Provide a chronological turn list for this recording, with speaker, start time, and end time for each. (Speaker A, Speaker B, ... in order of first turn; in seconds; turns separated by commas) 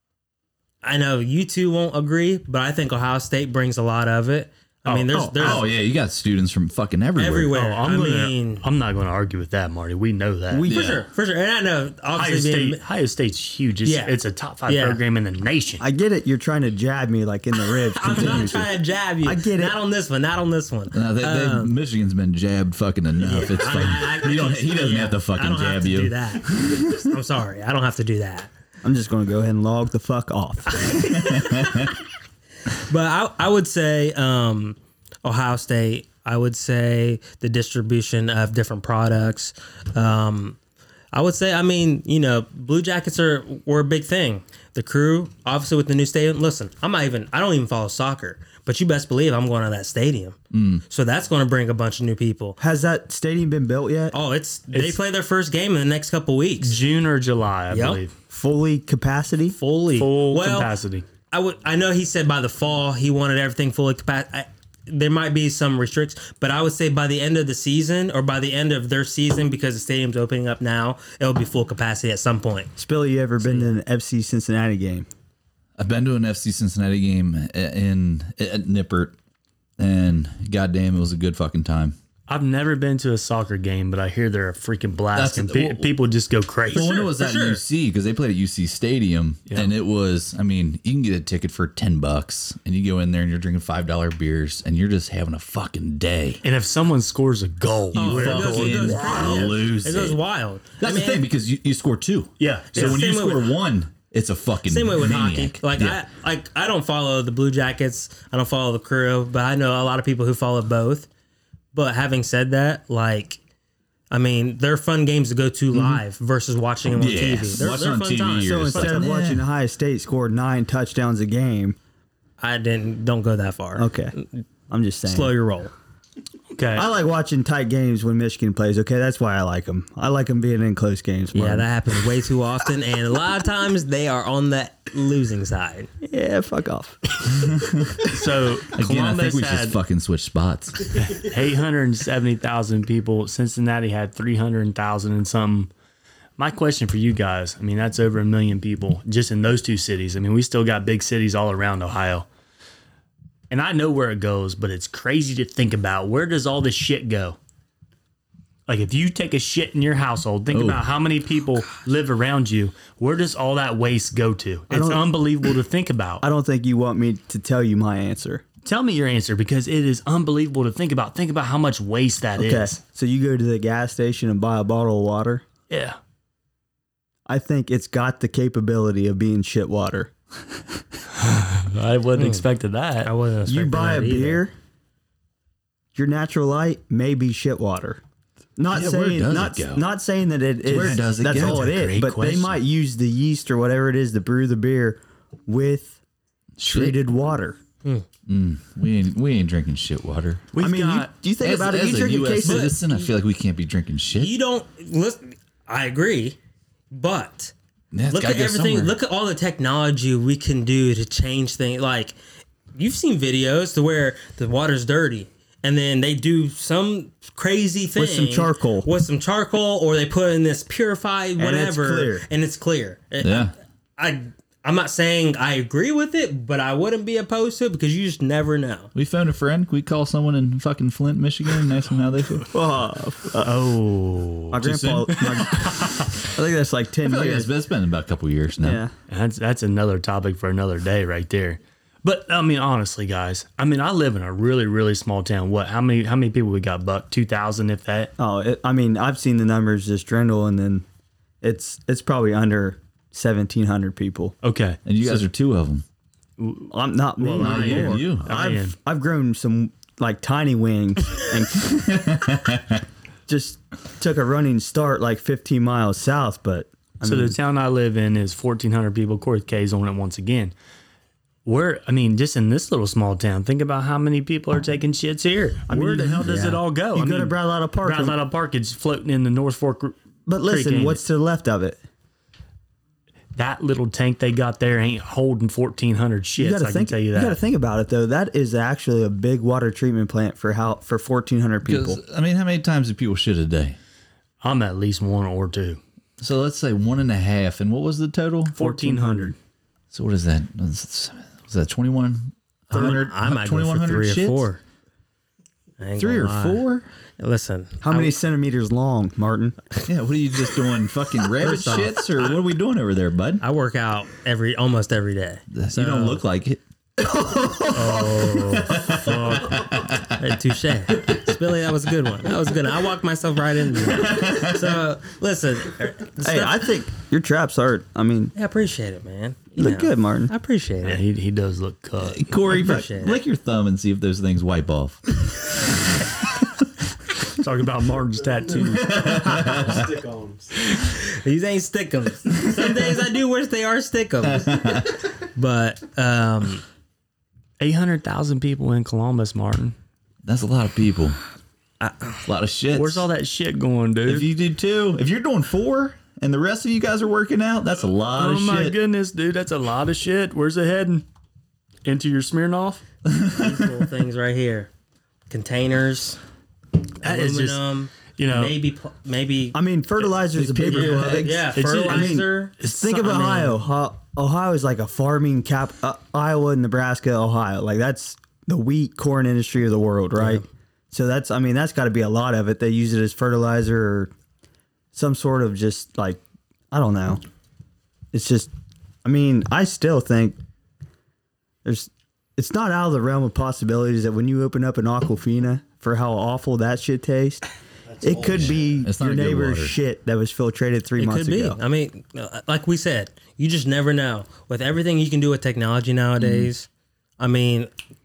Speaker A: 0.8-5.6, Speaker B: 4.8-5.6, Speaker C: 5.4-7.5, Speaker A: 7.2-8.6, Speaker B: 7.5-10.7, Speaker D: 10.5-11.0, Speaker A: 10.7-12.8, Speaker C: 10.7-11.0, Speaker B: 12.1-15.8, Speaker A: 13.8-14.2, Speaker A: 14.7-15.0, Speaker D: 15.8-19.7, Speaker A: 17.9-21.8, Speaker C: 18.1-18.5, Speaker C: 20.9-27.0, Speaker A: 23.2-28.5, Speaker D: 28.8-30.9, Speaker A: 30.7-31.9, Speaker C: 31.2-31.9, Speaker A: 32.7-40.6, Speaker A: 41.1-50.4, Speaker C: 50.5-50.8, Speaker A: 50.9-52.6, Speaker D: 52.6-54.1, Speaker A: 54.1-56.8, Speaker B: 54.7-55.0, Speaker B: 56.6-58.1, Speaker A: 57.7-58.0, Speaker D: 58.3-59.5, Speaker A: 59.5-60.7, Speaker B: 59.9-61.0, Speaker A: 61.3-72.7, Speaker D: 72.8-75.1, Speaker A: 73.4-73.7, Speaker C: 75.8-79.1, Speaker C: 79.8-82.0, Speaker B: 82.3-87.0, Speaker C: 85.1-85.9, Speaker C: 86.7-96.4, Speaker A: 86.7-87.6, Speaker B: 89.5-89.7, Speaker B: 96.4-99.5, Speaker C: 97.9-100.2, Speaker A: 97.9-101.2, Speaker C: 100.8-106.0, Speaker B: 102.4-103.0, Speaker A: 102.7-103.5, Speaker A: 104.7-111.1, Speaker A: 111.7-113.4, Speaker A: 114.1-118.8, Speaker C: 115.7-116.0, Speaker C: 116.8-119.5, Speaker D: 118.4-121.8, Speaker B: 118.7-119.1, Speaker A: 122.4-124.4, Speaker D: 123.8-124.1, Speaker D: 124.7-125.3, Speaker A: 125.0-125.7, Speaker B: 126.5-126.9, Speaker D: 126.7-131.7, Speaker A: 131.3-135.9, Speaker D: 136.0-137.2, Speaker C: 137.4-138.0, Speaker B: 138.0-139.8, Speaker C: 138.7-140.9, Speaker B: 141.0-145.7, Speaker B: 146.4-152.3, Speaker B: 153.5-157.4, Speaker B: 158.7-166.2, Speaker C: 160.5-160.8, Speaker D: 164.7-165.0, Speaker D: 166.2-168.4, Speaker B: 168.6-172.8, Speaker D: 172.4-175.4, Speaker B: 175.7-176.0, Speaker D: 177.2-180.1, Speaker B: 181.2-183.1, Speaker A: 182.2-182.4, Speaker A: 183.0-184.4, Speaker D: 183.5-184.5, Speaker D: 185.9-188.0, Speaker D: 188.6-196.0, Speaker C: 188.7-189.8, Speaker C: 190.6-191.8, Speaker B: 190.8-192.6, Speaker C: 196.6-197.0, Speaker D: 196.6-197.6, Speaker C: 198.3-200.4, Speaker B: 200.5-201.1, Speaker D: 200.6-202.7, Speaker C: 201.4-204.3, Speaker A: 202.4-203.1, Speaker A: 204.1-206.4, Speaker A: 206.9-207.5, Speaker C: 207.9-208.9, Speaker A: 208.1-212.2, Speaker A: 212.7-228.9, Speaker D: 217.9-218.9, Speaker D: 221.4-222.2, Speaker C: 223.2-223.5, Speaker C: 228.9-232.5, Speaker D: 232.5-233.6, Speaker B: 233.4-235.4, Speaker D: 234.5-237.5, Speaker C: 234.6-235.9, Speaker C: 237.0-238.8, Speaker D: 238.6-238.9, Speaker B: 239.1-248.1, Speaker D: 248.2-250.8, Speaker D: 251.4-254.3, Speaker B: 254.4-255.2, Speaker C: 254.8-255.8, Speaker B: 256.4-258.8, Speaker D: 256.7-262.2, Speaker C: 257.4-258.3, Speaker C: 261.8-262.8, Speaker D: 263.3-267.4, Speaker B: 267.0-270.5, Speaker B: 271.4-281.0, Speaker D: 275.7-278.1, Speaker D: 280.2-281.8, Speaker B: 283.3-287.4, Speaker D: 286.4-292.0, Speaker C: 291.6-293.8, Speaker B: 294.4-295.8, Speaker C: 296.2-298.6, Speaker B: 298.5-299.4, Speaker D: 298.6-299.3, Speaker C: 299.9-304.5, Speaker A: 302.7-304.6, Speaker A: 305.8-306.6, Speaker C: 306.0-306.9, Speaker A: 307.2-308.1, Speaker D: 307.8-309.6, Speaker C: 309.9-313.4, Speaker A: 311.4-312.2, Speaker A: 313.4-316.2, Speaker C: 315.5-320.1, Speaker B: 317.7-319.6, Speaker A: 320.1-326.6, Speaker C: 323.9-324.8, Speaker D: 326.2-328.3, Speaker A: 328.3-331.0, Speaker D: 329.6-330.3, Speaker B: 330.8-332.3, Speaker C: 332.0-335.0, Speaker A: 332.5-333.2, Speaker B: 337.3-339.2, Speaker E: 338.5-340.5, Speaker C: 338.8-339.8, Speaker A: 340.7-344.6, Speaker C: 344.2-345.0, Speaker A: 345.3-346.6, Speaker B: 347.6-349.7, Speaker C: 350.2-351.2, Speaker A: 351.8-352.2, Speaker C: 352.2-353.1, Speaker B: 352.7-354.3, Speaker C: 354.1-358.8, Speaker B: 358.1-361.0, Speaker B: 361.8-362.8, Speaker C: 363.1-363.8, Speaker A: 363.3-364.7, Speaker A: 365.3-366.2, Speaker A: 367.0-369.6, Speaker B: 367.0-367.6, Speaker B: 368.2-368.6, Speaker D: 369.5-384.1, Speaker B: 370.5-373.6, Speaker C: 370.6-371.2, Speaker A: 370.7-372.5, Speaker A: 380.1-380.4, Speaker D: 384.9-386.2, Speaker D: 386.7-387.2, Speaker D: 388.1-388.5, Speaker D: 389.0-390.4, Speaker D: 391.6-397.4, Speaker E: 397.9-398.8, Speaker D: 398.0-401.6, Speaker C: 398.3-399.8, Speaker A: 401.0-406.7, Speaker C: 406.2-406.5, Speaker A: 407.2-407.7